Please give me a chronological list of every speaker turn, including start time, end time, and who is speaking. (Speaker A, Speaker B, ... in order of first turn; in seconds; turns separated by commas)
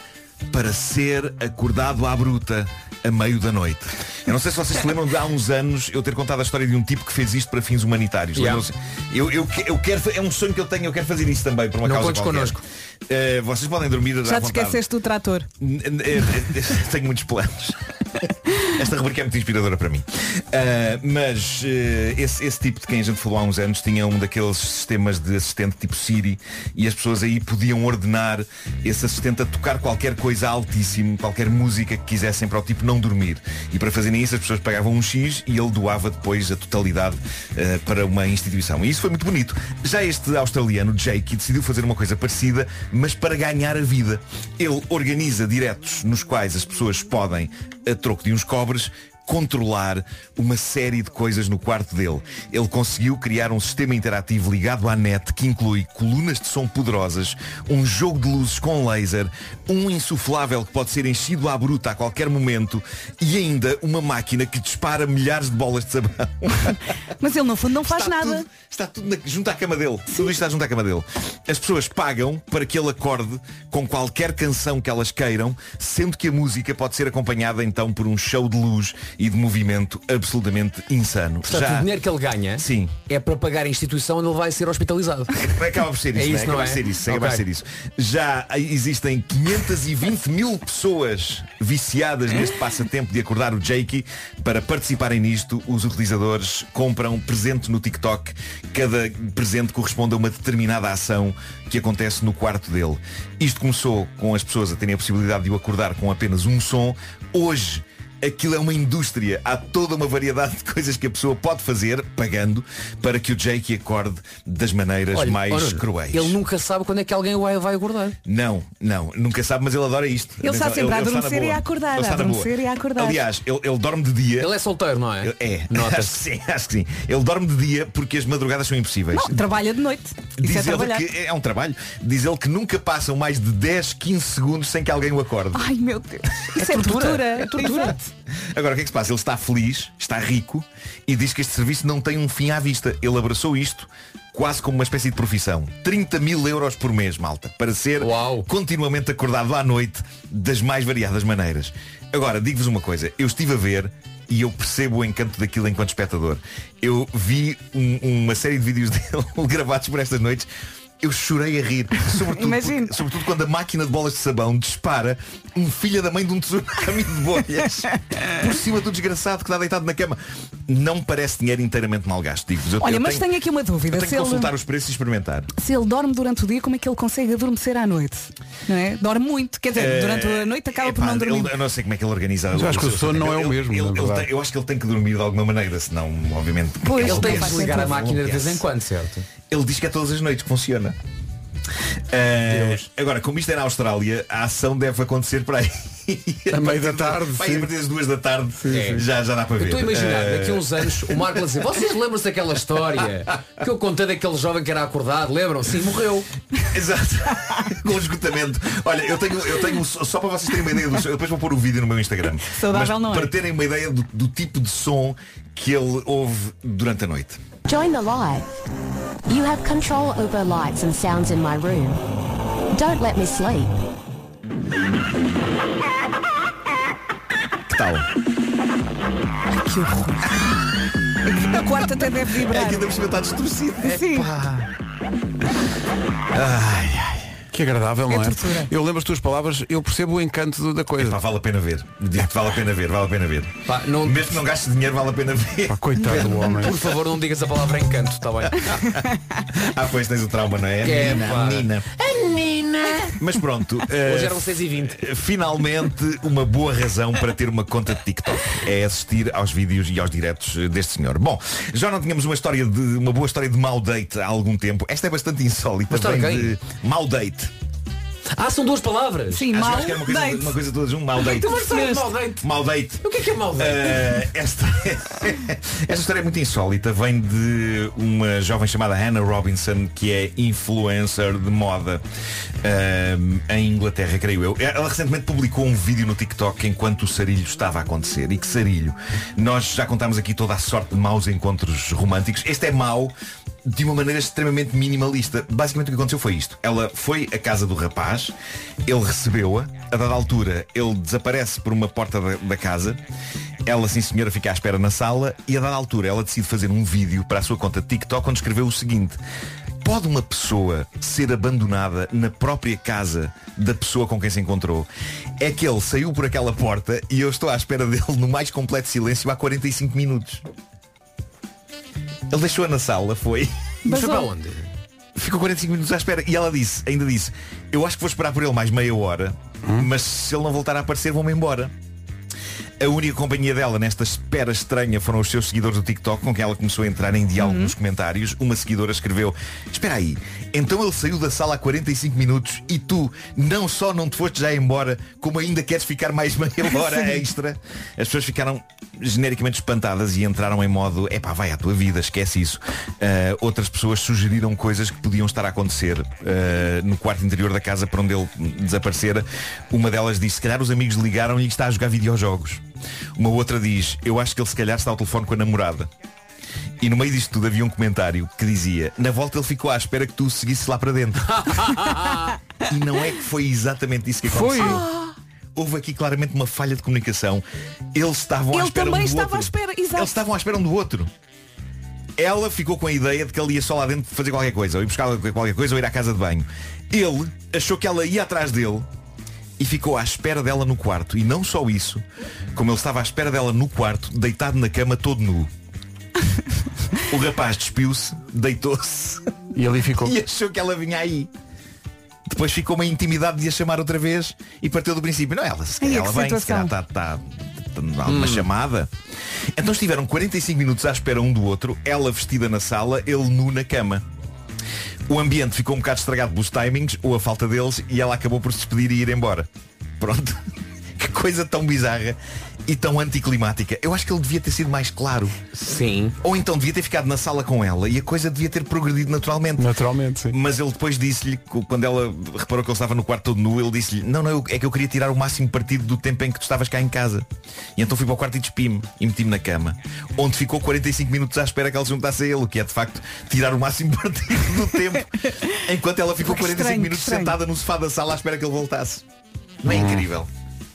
Speaker A: 0.5-14.8, Speaker B: 8.4-8.7, Speaker B: 11.8-12.6, Speaker C: 14.2-15.5, Speaker A: 15.6-66.8, Speaker C: 67.2-68.5, Speaker A: 67.8-81.9, Speaker B: 81.4-85.4, Speaker A: 82.6-82.9, Speaker A: 85.4-116.4, Speaker B: 86.2-87.4, Speaker B: 115.1-118.2, Speaker A: 118.3-124.5, Speaker C: 120.4-123.2, Speaker B: 124.4-126.2, Speaker A: 125.2-129.4, Speaker C: 129.1-131.1, Speaker A: 130.4-135.7, Speaker C: 135.5-138.1, Speaker B: 136.6-138.0, Speaker A: 138.5-160.5, Speaker B: 148.0-148.5, Speaker A: 161.0-173.3, Speaker C: 162.3-163.0, Speaker C: 172.8-174.5, Speaker A: 173.9-175.5, Speaker C: 175.6-181.6, Speaker A: 179.7-188.6, Speaker D: 182.5-184.3, Speaker C: 186.8-188.0, Speaker B: 187.0-189.3, Speaker A: 189.5-191.0, Speaker A: 192.1-201.3, Speaker B: 192.5-192.8, Speaker D: 196.5-197.7, Speaker D: 198.6-199.1, Speaker B: 198.7-199.0, Speaker B: 199.6-206.3, Speaker A: 206.7-217.4, Speaker C: 212.4-213.3, Speaker E: 217.7-218.6, Speaker E: 219.3-222.0, Speaker E: 222.7-223.8, Speaker A: 227.7-228.1, Speaker C: 229.6-230.2, Speaker C: 231.3-232.9, Speaker A: 232.4-234.4, Speaker C: 233.8-234.3, Speaker B: 234.2-234.6, Speaker A: 236.3-237.3, Speaker D: 237.5-241.2, Speaker C: 238.1-238.7, Speaker A: 241.0-246.2, Speaker B: 243.7-244.4, Speaker D: 245.7-246.8, Speaker B: 246.0-248.8, Speaker A: 248.6-251.9, Speaker B: 250.8-253.2, Speaker A: 253.2-267.5, Speaker B: 254.0-255.1, Speaker B: 265.9-266.6, Speaker B: 268.3-269.5, Speaker C: 269.3-270.6, Speaker A: 269.5-271.9, Speaker C: 271.2-272.1, Speaker B: 271.3-272.4, Speaker A: 272.4-273.1, Speaker B: 273.0-274.1, Speaker A: 273.6-282.0, Speaker A: 282.6-293.1, Speaker A: 293.7-298.3, Speaker A: 298.9-303.0, Speaker A: 303.7-309.2, Speaker A: 309.8-314.9, Speaker A: 315.4-320.4, Speaker A: 322.3-323.5, Speaker B: 323.9-324.7, Speaker C: 323.9-324.3, Speaker A: 325.1-331.7, Speaker A: 332.8-362.6, Speaker C: 337.4-337.7, Speaker A: 363.2-365.9, Speaker A: 366.8-371.9, Speaker B: 371.3-372.4, Speaker A: 372.7-374.9, Speaker D: 374.2-374.9, Speaker C: 374.6-375.1, Speaker A: 375.6-381.1, Speaker C: 378.5-380.2, Speaker A: 382.2-388.9, Speaker A: 389.6-392.0, Speaker A: 392.6-395.5, Speaker A: 397.1-399.4, Speaker D: 399.6-400.2, Speaker A: 400.0-401.3, Speaker A: 402.3-408.9, Speaker C: 405.8-406.7, Speaker B: 408.1-408.5, Speaker A: 409.6-414.0, Speaker A: 415.1-419.5, Speaker A: 420.0-420.4, Speaker A: 421.0-425.4, Speaker B: 425.5-426.1, Speaker A: 426.2-429.7, Speaker D: 429.6-430.4, Speaker A: 430.3-449.0, Speaker C: 446.2-447.4, Speaker A: 449.6-450.3, Speaker D: 449.7-450.1